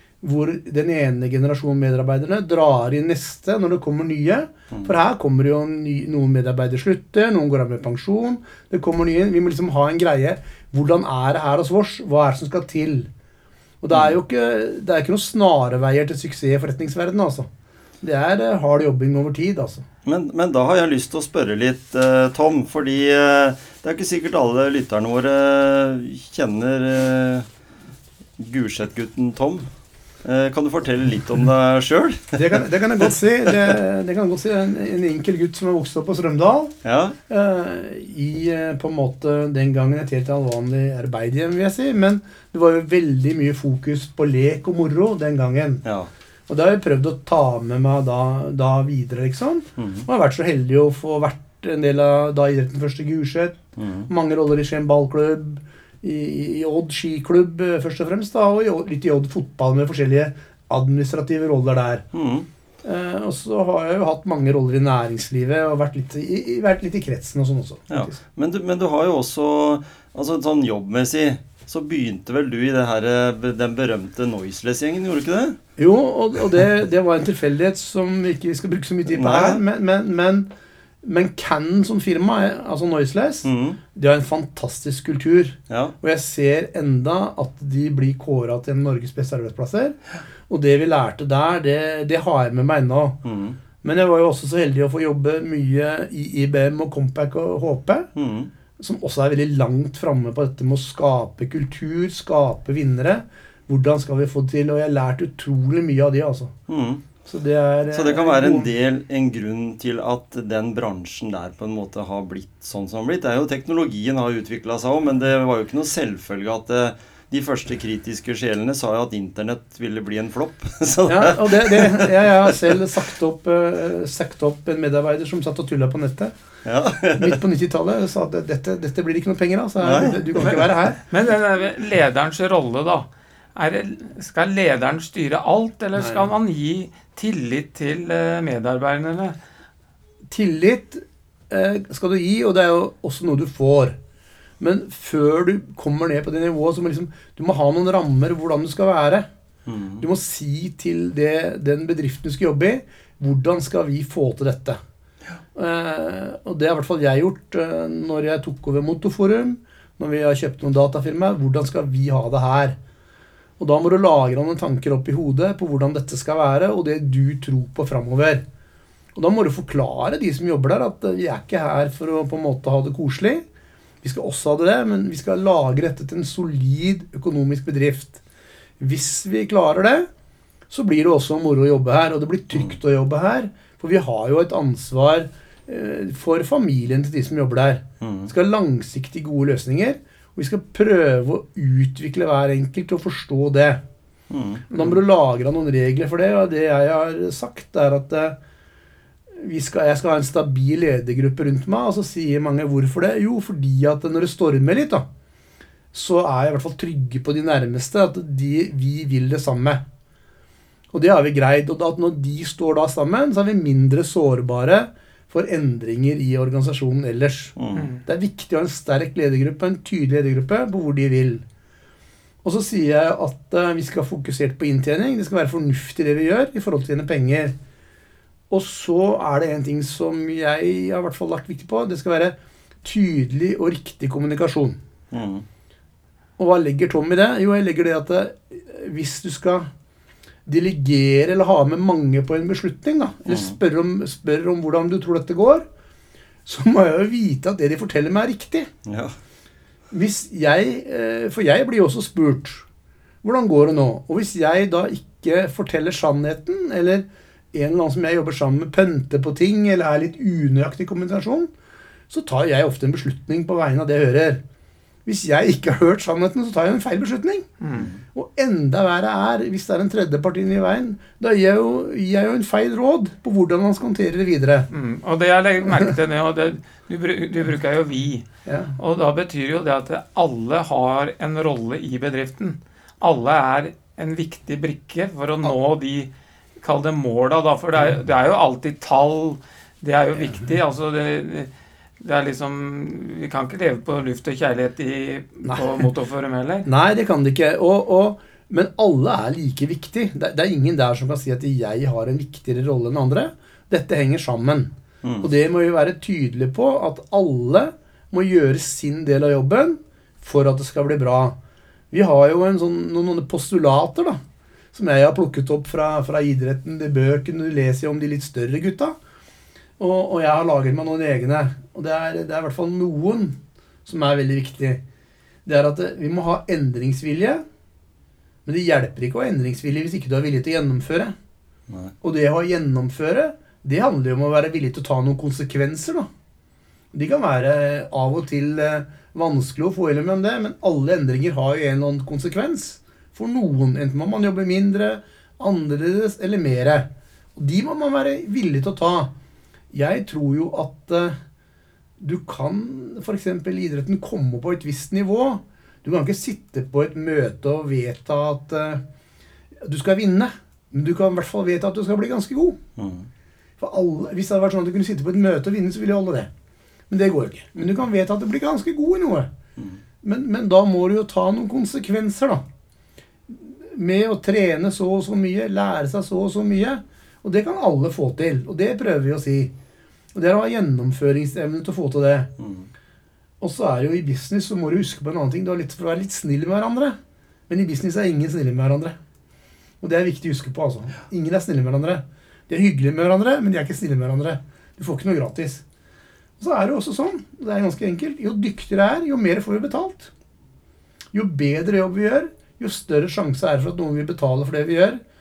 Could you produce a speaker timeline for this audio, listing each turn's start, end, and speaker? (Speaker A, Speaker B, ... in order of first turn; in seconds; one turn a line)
Speaker A: 0.2-13.1
Speaker A: 13.8-17.5
Speaker A: 18.0-19.8
Speaker B: 20.0-27.5
Speaker B: 28.4-29.7
Speaker B: 30.2-32.6
Speaker A: 32.3-36.7
Speaker B: 36.8-37.2
Speaker A: 37.3-45.8
Speaker B: 45.8-46.1
Speaker A: 46.5-62.0
Speaker B: 49.8-50.1
Speaker B: 53.8-54.1
Speaker B: 62.1-62.5
Speaker A: 62.8-68.2
Speaker B: 67.9-75.6
Speaker A: 75.8-80.5
Speaker B: 79.1-79.6
Speaker A: 81.0-90.0
Speaker B: 83.4-83.8
Speaker B: 85.7-85.9
Speaker A: 90.5-93.2
Speaker B: 93.2-93.6
Speaker A: 93.8-98.1
Speaker B: 98.1-98.5
Speaker A: 98.8-106.5
Speaker B: 106.7-107.0
Speaker A: 107.2-108.7
Speaker B: 107.9-122.8
Speaker A: 121.0-126.3
Speaker B: 126.6-127.4
Speaker A: 127.2-131.0
Speaker B: 129.8-130.7
Speaker C: 130.4-139.4
Speaker A: 135.9-136.3
Speaker A: 140.3-144.0
Speaker A: 144.6-149.3
Speaker B: 149.7-150.0
Speaker A: 150.0-154.8
Speaker A: 155.5-162.8
Speaker A: 163.6-168.4
Speaker A: 169.1-173.4
Speaker A: 174.0-178.2
Speaker A: 178.8-180.1
Speaker A: 180.7-193.8
Speaker B: 188.0-188.3
Speaker B: 194.3-194.6
Speaker A: 194.7-198.4
Speaker A: 199.3-205.0
Speaker A: 205.9-209.8
Speaker A: 210.9-221.4
Speaker B: 217.6-217.9
Speaker C: 217.8-218.0
Speaker A: 222.4-227.5
Speaker A: 228.5-234.8
Speaker B: 235.1-235.4
Speaker A: 236.4-239.7
Speaker A: 240.4-245.7
Speaker B: 243.3-243.5
Speaker A: 246.4-248.7
Speaker B: 248.8-249.1
Speaker A: 249.9-252.7
Speaker A: 253.2-261.5
Speaker A: 262.1-264.4
Speaker A: 265.0-267.5
Speaker C: 267.6-267.9
Speaker B: 267.7-268.0
Speaker A: 268.1-274.7
Speaker C: 274.7-278.2
Speaker A: 278.4-278.8
Speaker C: 278.8-296.7
Speaker A: 290.2-290.5
Speaker A: 295.4-295.9
Speaker A: 296.6-311.4
Speaker B: 305.0-305.3
Speaker A: 311.9-314.2
Speaker A: 314.7-318.9
Speaker A: 319.8-324.8
Speaker A: 325.4-327.4
Speaker A: 328.4-331.1
Speaker B: 331.7-331.9
Speaker A: 332.0-336.1
Speaker A: 336.9-349.1
Speaker A: 349.7-351.2
Speaker A: 352.0-358.8
Speaker A: 359.6-362.6
Speaker B: 362.8-363.1
Speaker A: 363.6-366.3
Speaker A: 366.9-369.3
Speaker A: 370.0-372.4
Speaker A: 373.3-379.5
Speaker A: 380.1-382.3
Speaker B: 382.4-382.7
Speaker A: 383.4-387.0
Speaker A: 387.5-388.9
Speaker A: 389.8-395.6
Speaker A: 396.4-400.1
Speaker A: 401.1-405.0